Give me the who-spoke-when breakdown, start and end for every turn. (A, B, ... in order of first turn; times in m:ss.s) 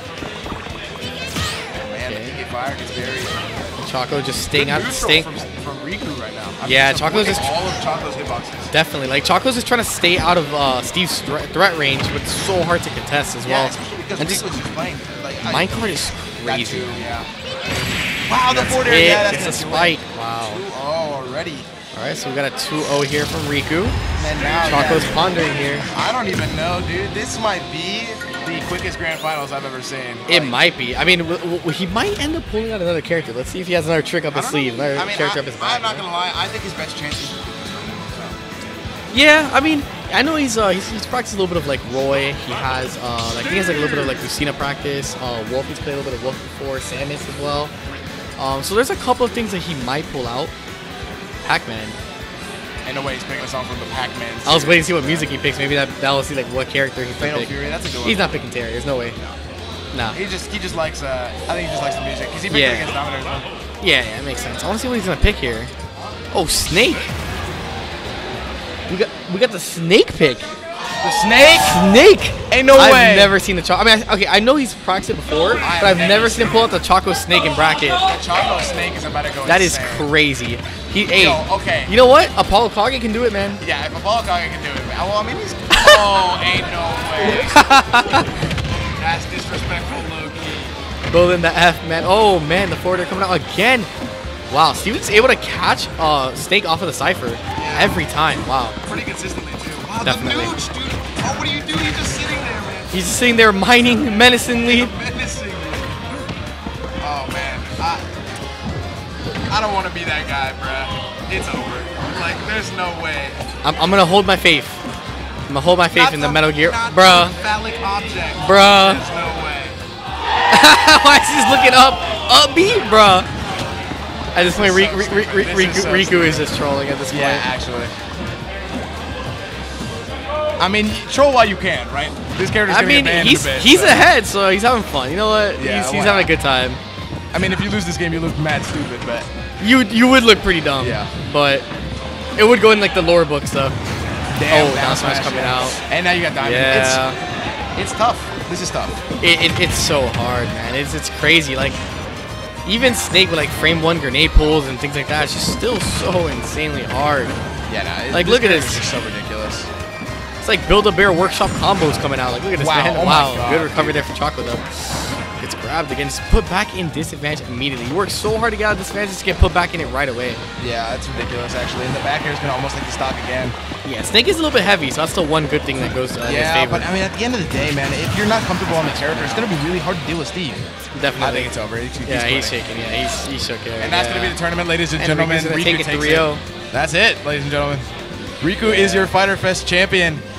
0:01.7-0:03.6 A
0:02.1-0:02.4 B
0:03.8-0:05.3 B
0:04.5-0:08.7 A
0:06.6-0:07.5 B
0:08.7-0:14.4 B
0:13.4-0:17.3 A
0:15.4-0:17.0 B
0:18.3-0:21.7 A
0:18.5-0:20.6 B
0:22.0-0:24.0 B
0:24.2-0:25.3 A
0:24.6-0:25.9 B
0:25.9-0:30.6 A
0:30.3-0:36.1 B
0:34.3-0:38.4 A
0:39.1-0:47.7 B
0:48.4-0:50.5 B
0:51.4-0:52.0 B
0:52.8-0:55.3 A
0:54.4-0:59.2 B
0:57.2-0:58.3 A
0:59.9-1:00.2 B
1:00.1-1:03.5 A
1:02.5-1:02.9 B
1:03.8-1:05.7 B
1:06.3-1:07.1 B
1:08.9-1:10.5 B
1:11.0-1:12.0 A
1:11.6-1:18.0 B
1:12.5-1:13.3 A
1:15.6-1:16.8 A
1:17.9-1:20.1 A
1:19.5-1:23.6 B
1:21.2-1:21.9 A
1:23.6-1:27.7 A
1:25.7-1:26.0 B
1:27.3-1:28.3 B
1:29.0-1:30.7 A
1:31.1-1:33.9 B
1:34.5-1:38.8 B
1:37.6-1:38.1 A
1:38.8-1:43.0 A
1:40.0-1:40.5 B
1:42.9-1:44.9 B
1:44.6-1:46.0 A
1:47.0-1:48.1 A
1:49.5-1:53.4 A
1:53.6-1:54.8 B
1:55.5-1:57.4 B
1:55.9-1:59.8 A
1:58.4-1:59.0 B
2:00.5-2:03.3 B
2:04.3-2:07.4 B
2:04.4-2:06.5 A
2:07.1-2:07.9 A
2:10.6-2:14.0 A
2:12.7-2:16.8 B
2:15.6-2:16.3 A
2:17.3-2:19.3 A
2:19.6-2:21.7 B
2:20.8-2:21.1 A
2:22.4-2:23.8 B
2:24.3-2:27.1 A
2:24.5-2:25.8 B
2:26.4-2:27.2 B
2:27.8-2:29.0 A
2:29.2-2:31.8 B
2:32.7-2:37.4 B
2:37.7-2:39.7 A
2:38.1-2:38.9 B
2:40.4-2:50.4 B
2:42.6-2:44.1 A
2:50.6-2:53.6 A
2:53.8-2:56.9 B
2:56.2-3:00.6 A
2:58.7-2:59.6 B
3:01.0-3:01.5 B
3:01.2-3:02.6 A
3:02.0-3:04.4 B
3:03.8-3:07.9 A
3:05.0-3:06.4 B
3:08.4-3:10.2 A
3:08.6-3:09.1 B